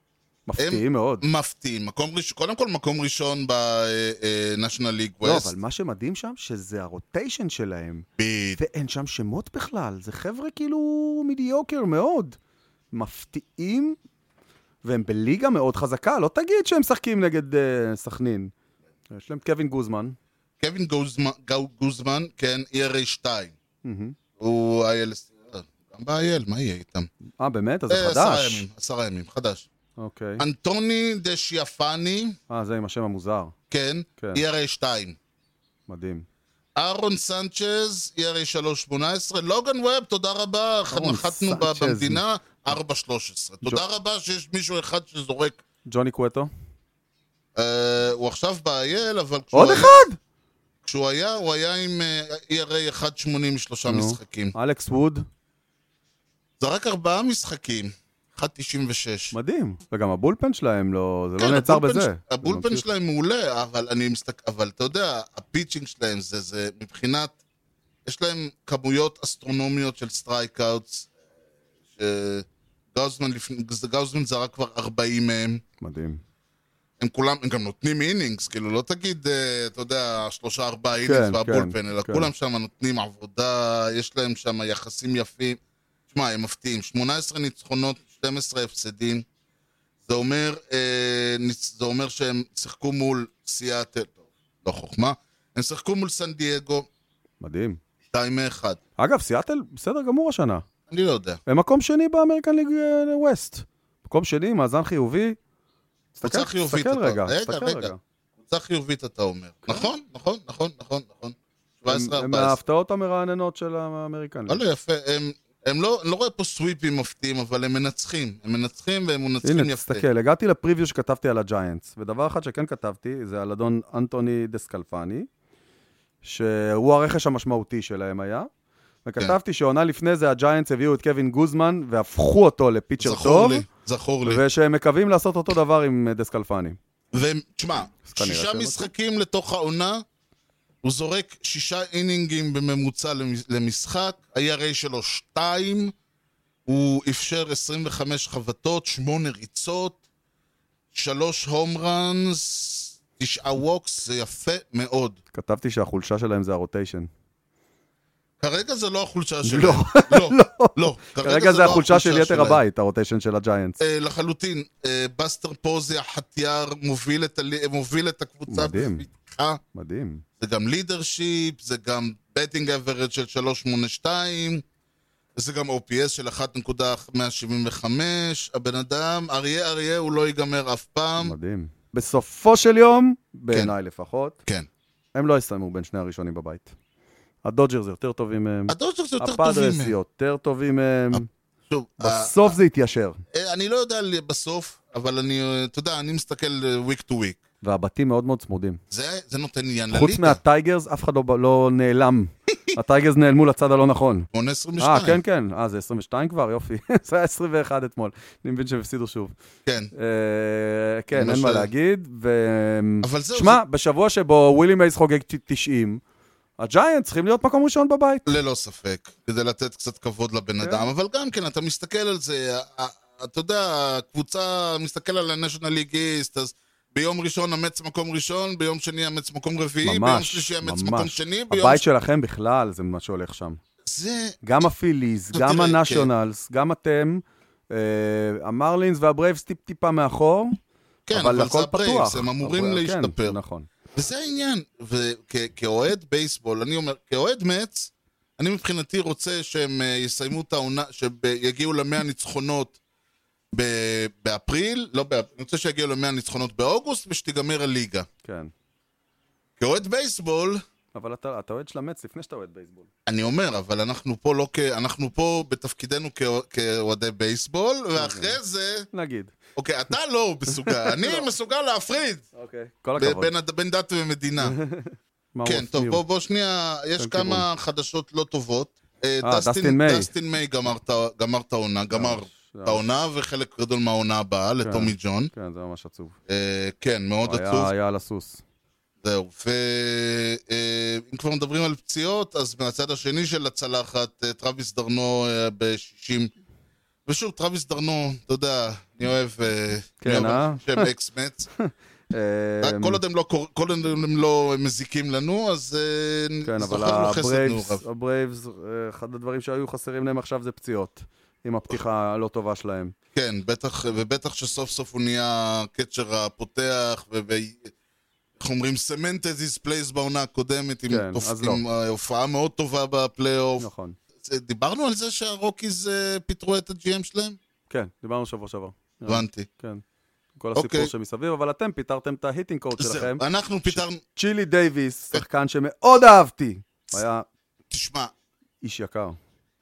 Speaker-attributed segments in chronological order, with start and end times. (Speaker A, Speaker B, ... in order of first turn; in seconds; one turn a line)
Speaker A: 0.5-1.2
Speaker B: 0.6-5.5
Speaker A: 5.2-8.1
Speaker B: 8.2-8.6
Speaker A: 8.6-12.4
Speaker A: 12.9-14.0
Speaker A: 14.8-18.5
Speaker A: 19.1-20.2
Speaker B: 20.6-23.6
Speaker A: 23.8-24.1
Speaker B: 24.4-27.1
Speaker A: 27.4-28.6
Speaker B: 27.9-29.6
Speaker A: 30.0-30.4
Speaker B: 30.4-32.4
Speaker A: 32.5-33.5
Speaker B: 33.7-35.2
Speaker A: 34.2-34.4
Speaker A: 35.9-36.2
Speaker B: 36.8-45.6
Speaker A: 40.9-42.2
Speaker A: 45.9-46.5
Speaker B: 47.5-50.0
Speaker A: 49.5-50.2
Speaker B: 50.8-54.5
Speaker A: 53.9-55.2
Speaker B: 56.6-59.3
Speaker A: 59.3-62.8
Speaker B: 61.4-67.3
Speaker B: 68.0-71.1
Speaker B: 71.9-75.6
Speaker A: 75.8-76.2
Speaker B: 77.0-89.2
Speaker A: 81.0-82.3
Speaker B: 90.0-96.9
Speaker A: 97.4-97.8
Speaker B: 98.1-98.8
Speaker A: 99.0-100.7
Speaker B: 100.9-101.4
Speaker A: 101.5-105.4
Speaker A: 106.1-108.0
Speaker B: 106.2-112.6
Speaker A: 111.9-114.6
Speaker B: 114.5-120.0
Speaker A: 119.4-125.3
Speaker A: 126.2-128.5
Speaker A: 129.0-133.7
Speaker B: 133.0-134.4
Speaker A: 134.2-136.8
Speaker B: 137.1-140.0
Speaker A: 138.1-138.9
Speaker B: 140.8-145.9
Speaker B: 146.7-150.0
Speaker B: 150.9-155.2
Speaker A: 155.3-157.1
Speaker B: 158.4-162.6
Speaker A: 159.4-163.8
Speaker B: 163.8-169.6
Speaker A: 168.5-169.0
Speaker A: 169.7-170.2
Speaker B: 170.4-174.6
Speaker B: 175.3-181.3
Speaker A: 181.2-184.4
Speaker A: 185.1-186.7
Speaker A: 187.4-191.3
Speaker B: 188.7-189.9
Speaker B: 191.7-192.6
Speaker A: 192.0-193.2
Speaker B: 193.3-197.4
Speaker A: 197.6-198.8
Speaker B: 198.9-200.4
Speaker A: 199.9-204.3
Speaker B: 204.3-205.2
Speaker A: 204.8-209.3
Speaker B: 209.7-209.9
Speaker A: 209.9-216.0
Speaker B: 211.1-211.7
Speaker B: 213.0-213.6
Speaker A: 216.6-218.3
Speaker B: 218.2-231.8
Speaker A: 220.6-220.9
Speaker A: 229.8-233.6
Speaker B: 233.8-234.4
Speaker A: 234.4-240.6
Speaker B: 235.3-236.1
Speaker B: 241.1-243.4
Speaker A: 241.1-243.7
Speaker B: 243.9-252.8
Speaker B: 253.5-258.1
Speaker A: 258.2-258.5
Speaker B: 259.6-260.6
Speaker A: 260.9-262.9
Speaker B: 263.1-268.9
Speaker A: 267.9-268.4
Speaker A: 268.9-269.3
Speaker B: 269.6-272.2
Speaker A: 270.5-271.3
Speaker A: 272.3-273.3
Speaker B: 273.0-274.6
Speaker A: 274.4-276.0
Speaker B: 275.4-285.3
Speaker A: 277.0-277.5
Speaker A: 279.2-280.1
Speaker A: 281.9-282.8
Speaker A: 284.6-286.1
Speaker B: 286.3-287.7
Speaker A: 287.2-288.4
Speaker B: 289.0-296.3
Speaker B: 297.1-301.5
Speaker A: 300.0-300.9
Speaker A: 301.6-303.0
Speaker B: 302.6-307.8
Speaker A: 306.4-312.9
Speaker B: 313.1-317.7
Speaker B: 318.4-323.7
Speaker A: 320.9-321.6
Speaker A: 323.6-323.9
Speaker B: 324.2-327.4
Speaker A: 327.7-329.8
Speaker B: 329.1-329.5
Speaker A: 330.4-337.2
Speaker B: 330.5-330.9
Speaker B: 332.8-334.0
Speaker B: 337.7-338.1
Speaker A: 338.6-339.2